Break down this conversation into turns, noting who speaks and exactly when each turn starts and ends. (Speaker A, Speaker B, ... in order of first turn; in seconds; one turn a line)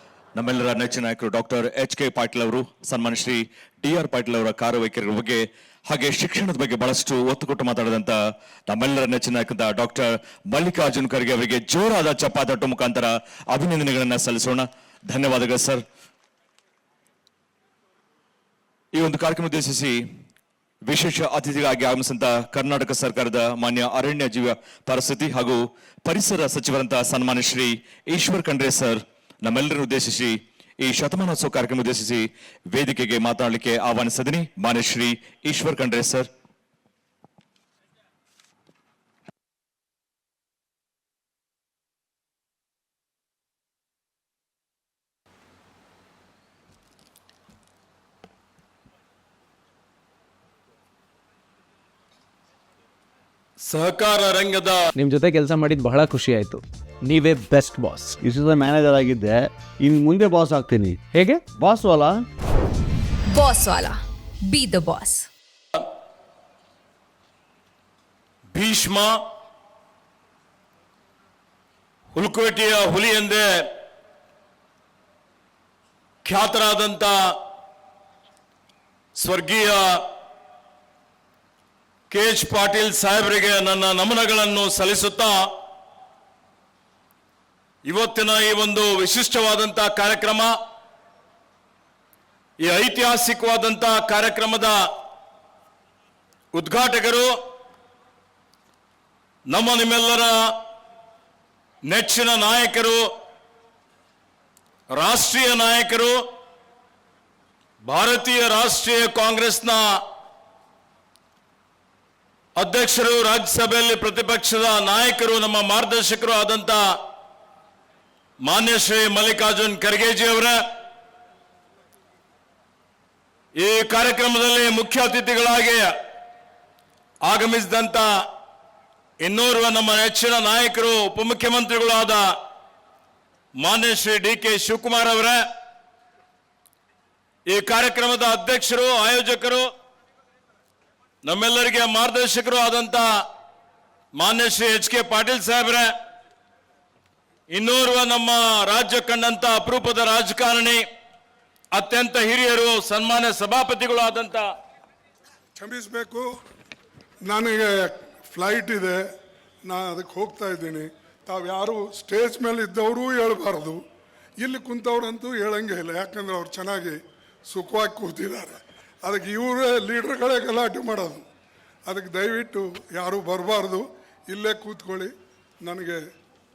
Speaker A: 0.3-8.2
Speaker A: 8.7-15.8
Speaker A: 18.9-20.0
Speaker A: 20.9-36.3
Speaker B: 53.6-54.9
Speaker C: 54.9-58.2
Speaker D: 58.2-61.0
Speaker C: 61.1-61.4
Speaker D: 61.5-62.2
Speaker E: 63.3-65.3
Speaker B: 68.5-69.2
Speaker B: 72.1-73.7
Speaker B: 76.2-77.4
Speaker B: 79.2-80.1
Speaker B: 82.1-85.5
Speaker B: 87.8-90.5
Speaker B: 92.6-94.8
Speaker B: 96.5-97.3
Speaker B: 99.5-100.4
Speaker B: 101.9-103.0
Speaker B: 104.9-106.2
Speaker B: 107.8-110.0
Speaker B: 112.6-116.8
Speaker B: 118.4-120.6
Speaker B: 123.6-125.9
Speaker B: 127.2-128.1
Speaker B: 129.2-132.3
Speaker B: 133.6-135.4
Speaker B: 137.5-139.7
Speaker B: 141.2-143.1
Speaker B: 144.2-145.9
Speaker B: 147.5-150.8
Speaker B: 151.7-154.5
Speaker F: 155.6-156.3
Speaker F: 157.2-159.0
Speaker F: 159.6-163.8
Speaker F: 164.4-171.2
Speaker F: 171.8-175.1
Speaker F: 175.6-176.0